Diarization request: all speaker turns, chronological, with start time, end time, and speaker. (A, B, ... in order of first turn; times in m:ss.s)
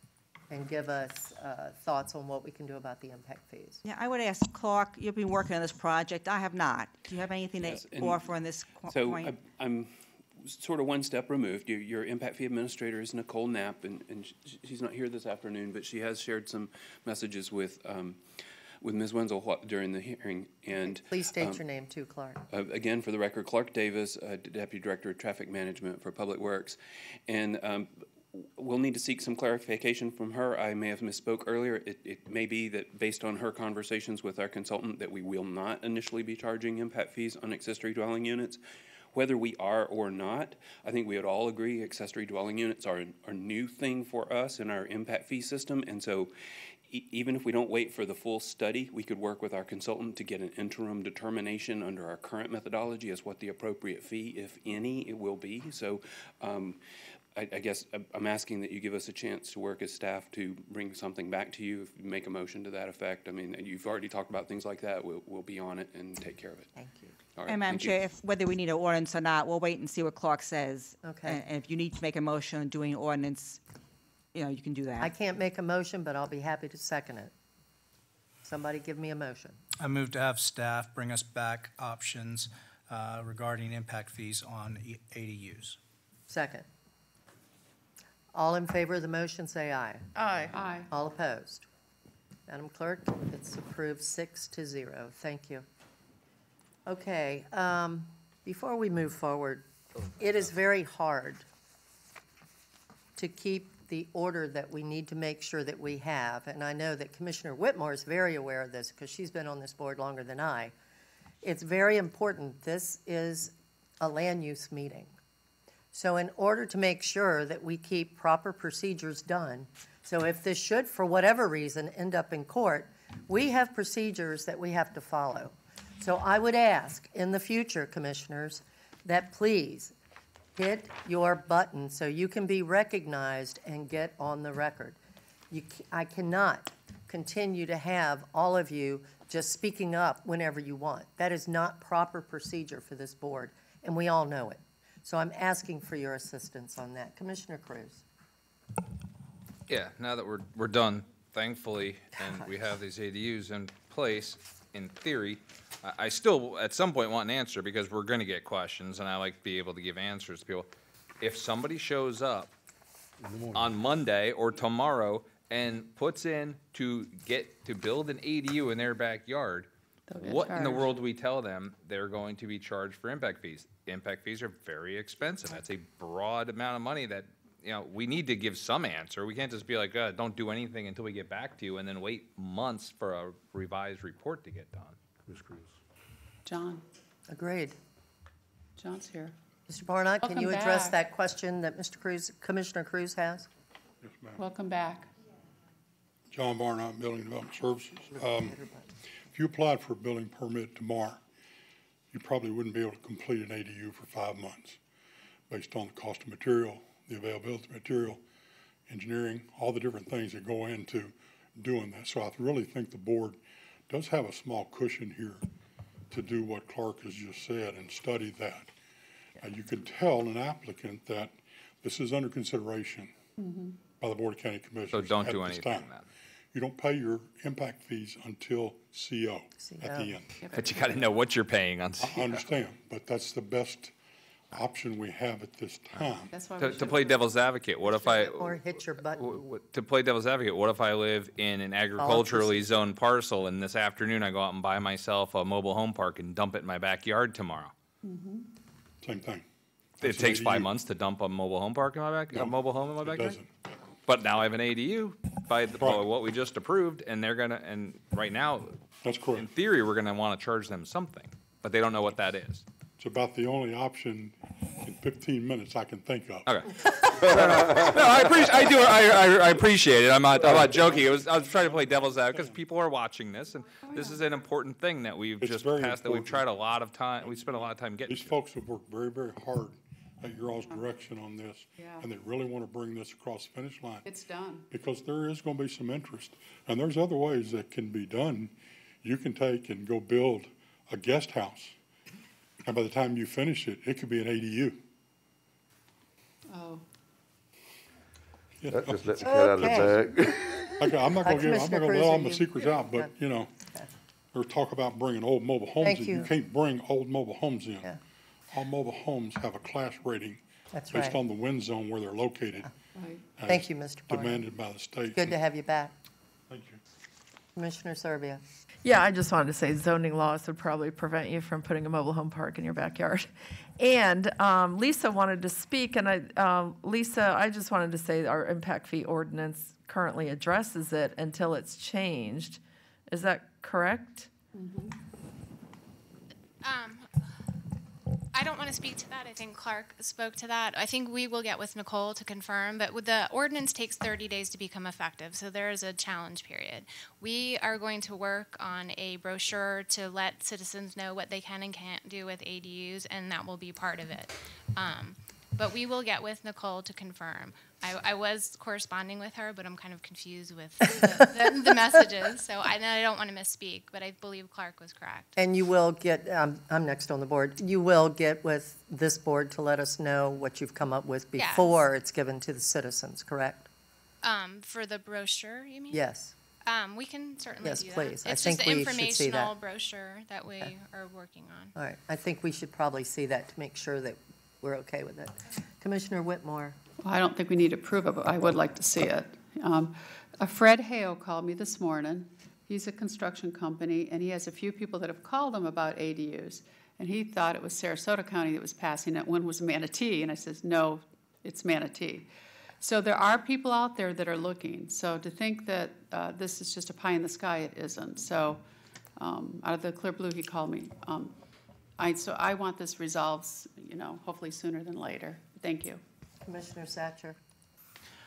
0:00.5-0:03.8 A
0:03.8-0:09.4 B
0:07.6-0:21.6 C
0:20.8-0:22.4 A
0:22.5-0:38.6 C
0:39.1-0:46.3 C
0:46.9-0:56.8 C
0:57.3-1:06.7 C
1:06.7-1:07.2 A
1:07.4-1:08.0 C
1:07.5-1:13.6 B
1:11.0-1:11.4 A
1:14.3-1:15.1 B
1:15.0-1:17.3 A
1:18.4-1:19.6 A
1:19.8-1:25.8 D
1:26.3-1:26.6 A
1:28.3-1:30.0 A
1:30.1-1:30.5 E
1:30.5-1:30.9 F
1:30.9-1:31.6 A
1:32.5-1:35.6 A
1:36.8-1:41.4 A
1:43.2-1:50.7 A
1:51.4-1:55.1 A
1:55.9-2:09.9 A
2:10.6-2:15.0 A
2:15.5-2:28.0 A
2:29.7-2:40.7 G
2:41.2-2:42.5 G
2:43.2-2:43.8 H
2:43.5-2:49.7 G
2:50.1-2:50.9 F
2:50.2-3:05.0 G
3:05.3-3:05.8 H
3:06.4-3:06.8 F
3:07.3-3:07.8 A
3:08.8-3:09.3 F
3:09.7-3:13.5 A
3:10.2-3:11.0 F
3:14.0-3:14.4 I
3:14.4-3:15.1 F
3:16.3-3:18.6 I
3:18.1-3:18.9 A
3:19.3-3:21.2 I
3:22.1-3:24.8 I
3:25.5-3:28.2 I
3:28.9-3:35.4 I
3:36.1-3:38.7 I
3:39.4-3:43.2 I
3:43.4-3:43.8 F
3:43.9-3:45.9 I
3:44.9-3:46.1 G
3:46.5-3:50.3 I
3:49.6-3:50.2 A
3:50.4-3:51.2 F
3:50.5-3:52.4 G
3:52.0-3:53.9 I
3:54.5-3:56.3 I
3:56.3-3:57.2 F
3:56.6-4:07.7 G
3:57.8-3:59.2 A
4:02.0-4:02.6 A
4:08.0-4:08.4 F
4:09.0-4:09.4 I
4:10.0-4:13.4 G
4:10.0-4:10.7 I
4:12.3-4:13.5 I
4:14.0-4:18.8 G
4:15.7-4:16.1 I
4:19.0-4:19.5 I
4:19.4-4:22.6 G
4:23.0-4:26.5 I
4:26.4-4:38.3 G
4:27.2-4:28.1 H
4:30.4-4:32.6 I
4:33.8-4:34.2 F
4:35.4-4:36.6 I
4:37.2-4:44.0 I
4:41.7-4:42.1 F
4:44.0-4:44.7 F
4:44.7-4:51.8 I
4:52.6-4:54.8 I
4:56.5-4:56.8 F
4:58.6-4:59.8 I
4:58.7-5:00.7 H
4:59.2-5:03.1 A
5:00.8-5:03.5 I
5:04.3-5:07.9 I
5:05.8-5:06.3 A
5:08.5-5:10.4 I
5:10.7-5:11.2 A
5:10.9-5:12.7 I
5:13.0-5:13.3 F
5:13.3-5:15.4 I
5:13.4-5:14.5 A
5:15.1-5:15.9 A
5:16.5-5:16.8 I
5:17.5-5:18.4 A
5:18.8-5:34.3 E
5:34.5-5:34.9 F
5:36.6-5:37.1 J
5:38.3-6:05.3 J
6:00.9-6:01.9 A
6:05.4-6:13.7 A
6:11.4-6:11.8 J
6:14.2-6:16.0 J
6:15.9-6:16.3 A
6:16.6-6:21.7 J
6:17.6-6:19.5 A
6:21.8-6:26.8 A
6:27.0-6:42.3 F
6:42.8-6:48.6 F
6:49.2-6:51.3 F
6:52.0-6:56.0 F
6:56.4-6:57.4 A